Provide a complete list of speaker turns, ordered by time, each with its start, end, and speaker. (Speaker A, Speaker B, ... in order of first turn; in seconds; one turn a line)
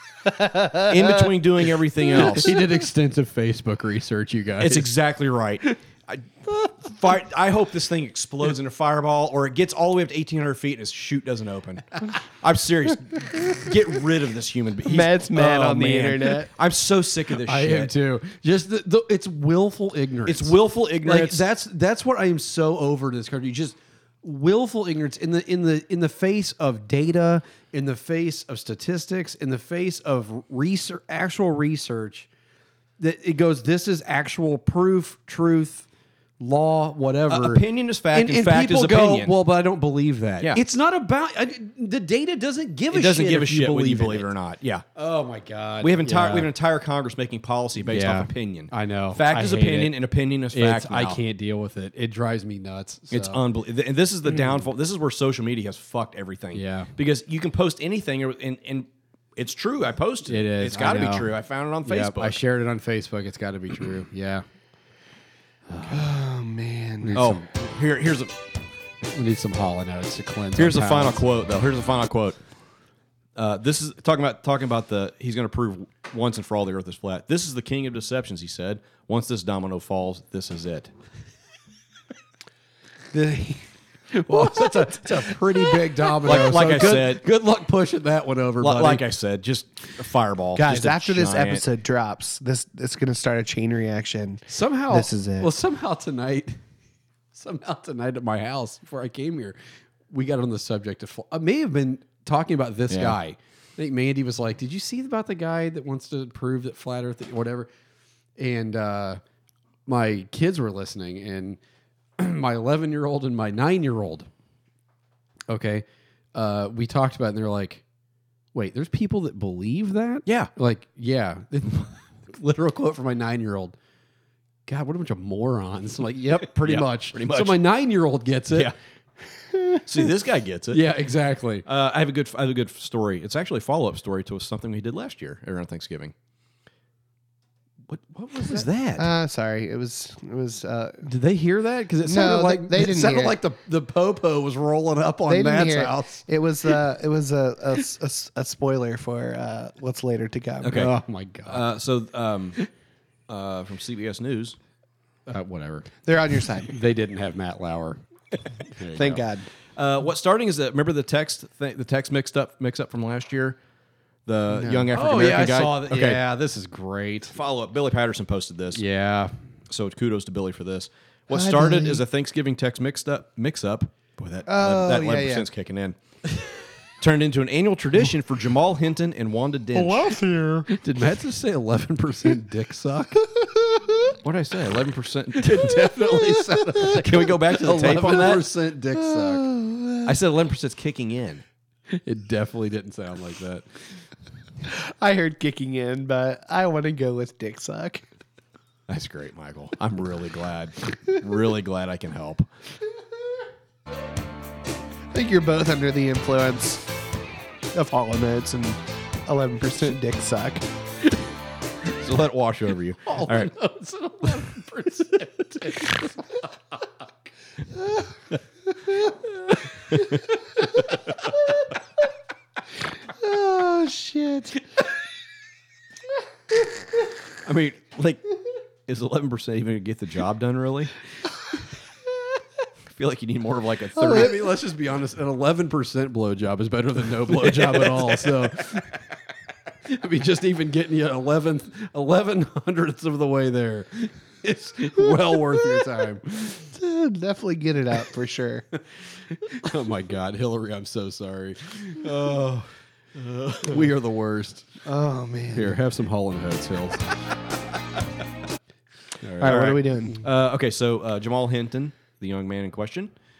Speaker A: 0.6-0.8
Speaker B: 0.8-2.6
Speaker C: 2.1-4.9
Speaker B: 4.6-17.9
Speaker A: 14.9-16.5
Speaker C: 17.4-32.3
Speaker B: 20.3-21.4
Speaker C: 33.0-35.9
Speaker C: 36.4-44.3
Speaker B: 37.3-39.4
Speaker B: 42.9-44.9
Speaker C: 45.0-46.5
Speaker B: 45.8-51.2
Speaker C: 47.8-50.0
Speaker C: 50.5-53.4
Speaker B: 53.1-62.4
Speaker C: 56.5-56.9
Speaker C: 60.3-61.3
Speaker C: 61.8-64.5
Speaker C: 65.7-66.1
Speaker A: 65.9-67.2
Speaker C: 67.0-67.5
Speaker B: 67.2-68.3
Speaker C: 69.0-71.3
Speaker B: 70.6-72.4
Speaker B: 73.3-80.9
Speaker A: 83.1-83.7
Speaker C: 84.1-89.0
Speaker A: 84.3-84.9
Speaker B: 86.2-87.2
Speaker B: 88.6-91.6
Speaker A: 90.6-95.5
Speaker C: 94.5-96.6
Speaker C: 97.3-99.6
Speaker C: 100.1-107.7
Speaker B: 102.9-103.2
Speaker C: 108.4-109.2
Speaker C: 109.9-111.6
Speaker C: 112.2-114.3
Speaker C: 115.5-117.8
Speaker C: 118.5-123.8
Speaker B: 120.3-120.5
Speaker C: 124.7-128.7
Speaker B: 126.4-127.6
Speaker B: 128.5-128.8
Speaker A: 129.6-129.8
Speaker B: 129.8-130.9
Speaker C: 130.7-131.7
Speaker B: 131.7-136.1
Speaker B: 137.9-139.1
Speaker A: 138.5-141.1
Speaker C: 141.1-146.8
Speaker A: 142.0-143.4
Speaker A: 145.3-150.8
Speaker B: 150.6-150.9
Speaker C: 150.7-151.7
Speaker B: 151.5-152.6
Speaker B: 153.3-154.6
Speaker C: 155.3-155.9
Speaker A: 156.1-156.7
Speaker C: 156.5-158.0
Speaker C: 158.7-159.2
Speaker A: 159.0-159.5
Speaker B: 159.8-163.6
Speaker B: 164.3-166.2
Speaker A: 164.5-164.9
Speaker C: 164.9-167.4
Speaker B: 167.3-168.8
Speaker C: 168.7-169.3
Speaker B: 169.7-176.0
Speaker A: 171.3-172.0
Speaker A: 174.5-175.5
Speaker B: 177.0-180.2
Speaker A: 179.8-180.7
Speaker C: 180.7-183.2
Speaker A: 183.5-184.1
Speaker B: 184.2-188.5
Speaker C: 185.3-189.5
Speaker A: 189.0-190.1
Speaker B: 190.1-191.4
Speaker C: 191.9-193.7
Speaker A: 194.7-198.0
Speaker B: 198.9-202.5
Speaker A: 205.1-206.8
Speaker A: 207.7-210.7
Speaker B: 212.0-213.5
Speaker C: 213.1-216.8
Speaker A: 217.8-218.1
Speaker B: 219.9-220.2
Speaker A: 223.2-224.6
Speaker B: 227.4-228.2
Speaker B: 228.9-230.9
Speaker B: 232.9-234.4
Speaker C: 234.0-239.0
Speaker B: 237.4-238.3
Speaker C: 239.9-246.7
Speaker A: 246.7-248.7
Speaker C: 249.4-252.6
Speaker B: 252.1-252.5
Speaker B: 253.2-253.9
Speaker C: 253.6-254.7
Speaker A: 254.8-255.8
Speaker C: 255.5-257.1
Speaker C: 259.2-259.8
Speaker A: 259.4-260.2
Speaker B: 259.4-263.1